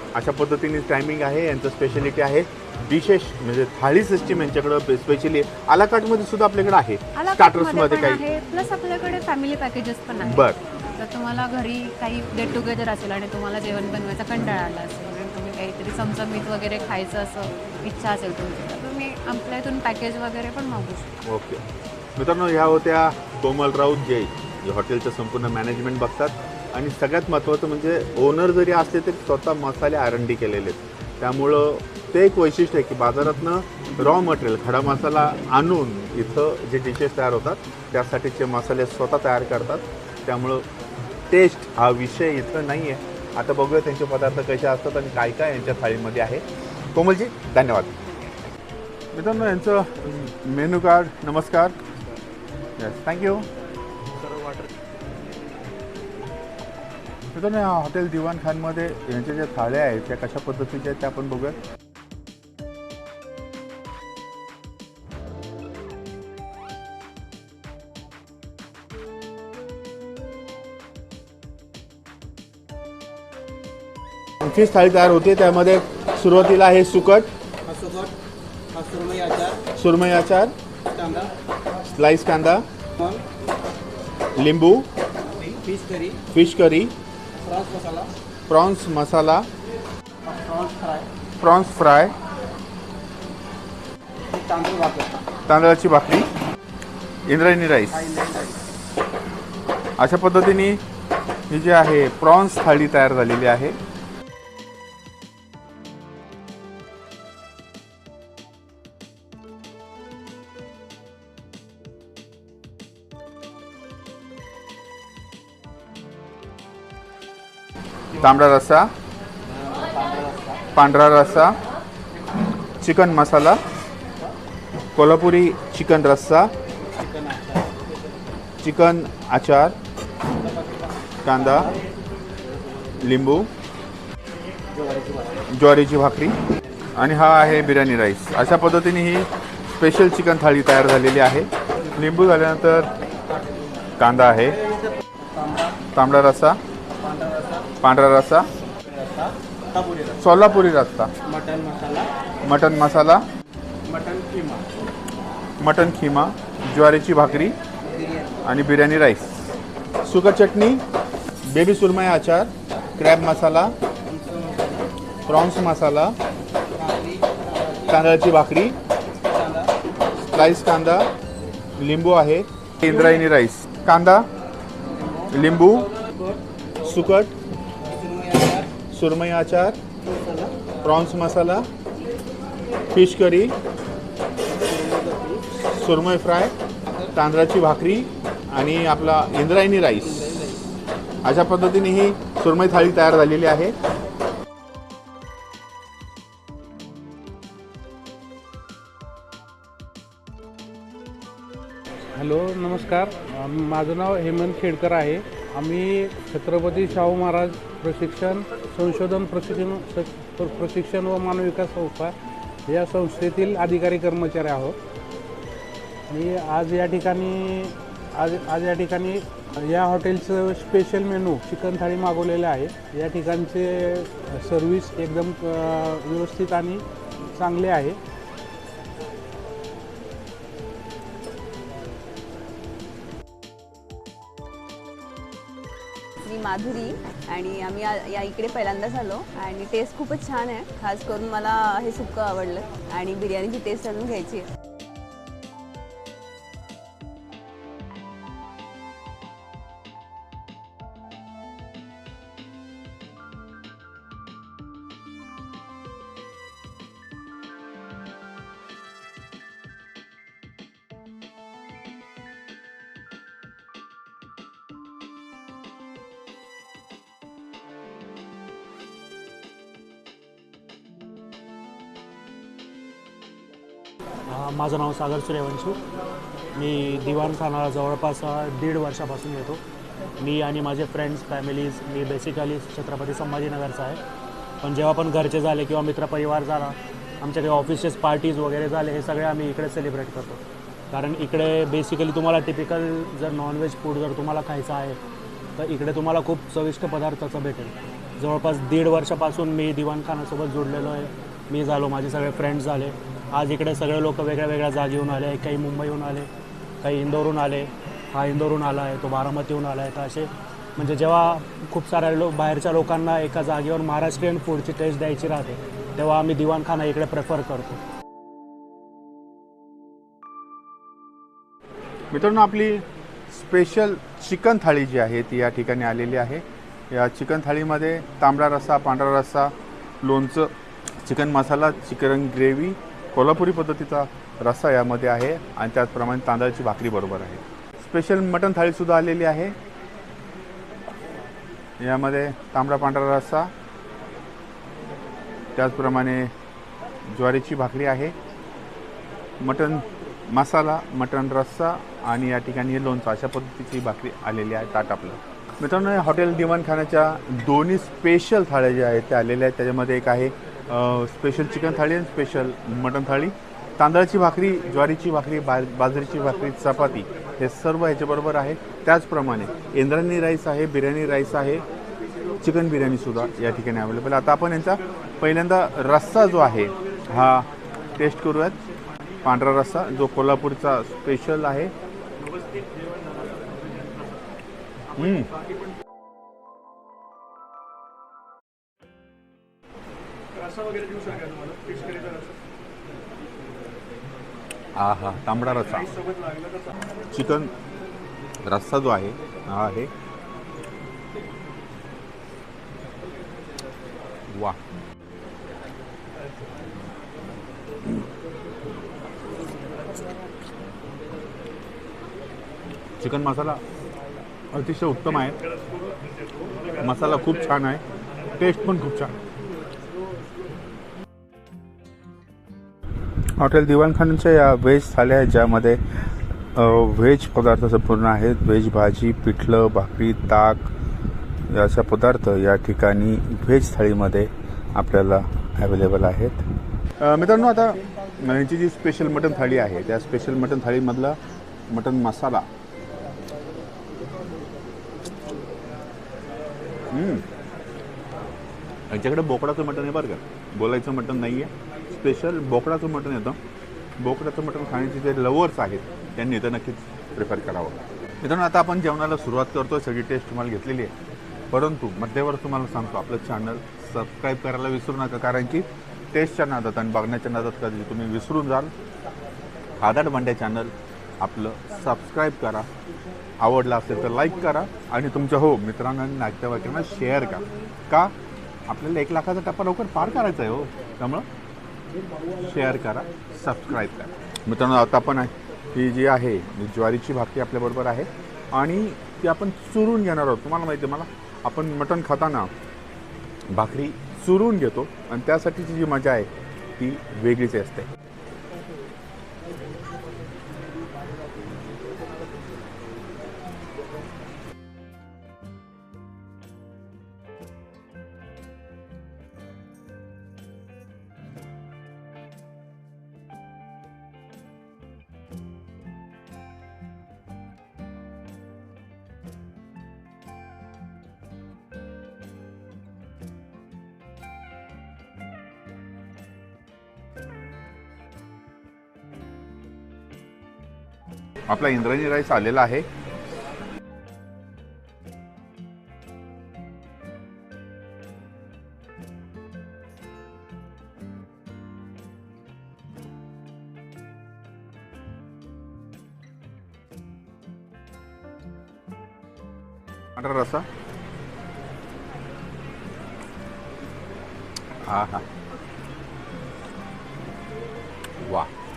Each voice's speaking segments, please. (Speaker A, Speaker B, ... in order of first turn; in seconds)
Speaker A: 0.1-8.2, 10.2-10.6, 21.3-21.6, 22.1-40.7, 41.3-48.0, 49.1-51.8, 52.8-53.5, 57.3-61.6, 74.4-77.3, 79.7-80.5, 81.8-82.6, 84.3-84.9, 86.3-86.9, 88.5-89.5, 91.4-92.1, 95.5-96.3, 97.2-98.2, 100.0-100.8, 101.5-103.8, 118.1-118.9, 120.7-121.6, 122.8-123.6, 124.9-126.5, 128.6-129.8, 131.2-131.7, 133.0-133.5, 135.5-136.3, 136.9-142.9, 144.0-144.6, 145.9-146.6, 147.8-148.5, 150.2-151.1, 152.4-153.2, 155.6-157.6, 158.4-159.3, 160.0-160.8, 161.4-163.7, 165.3-166.2, 167.8-168.8, 170.3-171.1, 171.8-174.3, 175.2-175.9, 176.8-177.3, 178.9-179.8, 180.8-181.7, 182.9-183.5, 185.5-186.5, 187.1-190.5, 191.2-193.7, 322.1-330.5, 331.0-339.5, 341.8-343.5, 345.6-346.3, 347.1-348.1, 349.4-371.6, 372.4-378.6, 379.2-381.7, 384.9-385.3, 394.8-395.9, 397.1-397.5, 398.4-399.9, 404.3-404.6, 413.0-413.6, 414.5-415.4, 416.8-417.8, 418.4-419.1, 423.4-430.7, 431.5-436.4, 437.0-441.2, 441.7-442.5, 446.9-447.2, 448.9-453.4, 454.0-460.9, 461.5-468.7, 469.8-472.7, 473.4-478.1, 478.7-481.2, 482.4-492.5, 493.5-497.9, 531.5-532.9, 550.1-550.6, 554.8-555.2, 558.2-558.5
Speaker B: 7.1-21.2
Speaker C: 77.7-78.1, 78.7-79.6, 81.0-81.3, 85.5-86.2, 87.5-88.1, 90.3-91.0, 94.4-95.1, 98.1-98.4, 119.8-120.3, 147.1-147.6, 151.3-152.1, 153.9-154.6, 164.2-164.5, 166.8-167.4, 177.9-178.6, 184.8-185.2
Speaker D: 202.1-212.1, 212.7-214.8, 216.1-226.8, 227.3-228.0
Speaker E: 236.2-244.5
Speaker F: 274.3-275.8, 276.5-279.6, 280.2-284.0, 284.6-290.4, 290.9-295.0, 295.6-306.3, 306.8-317.8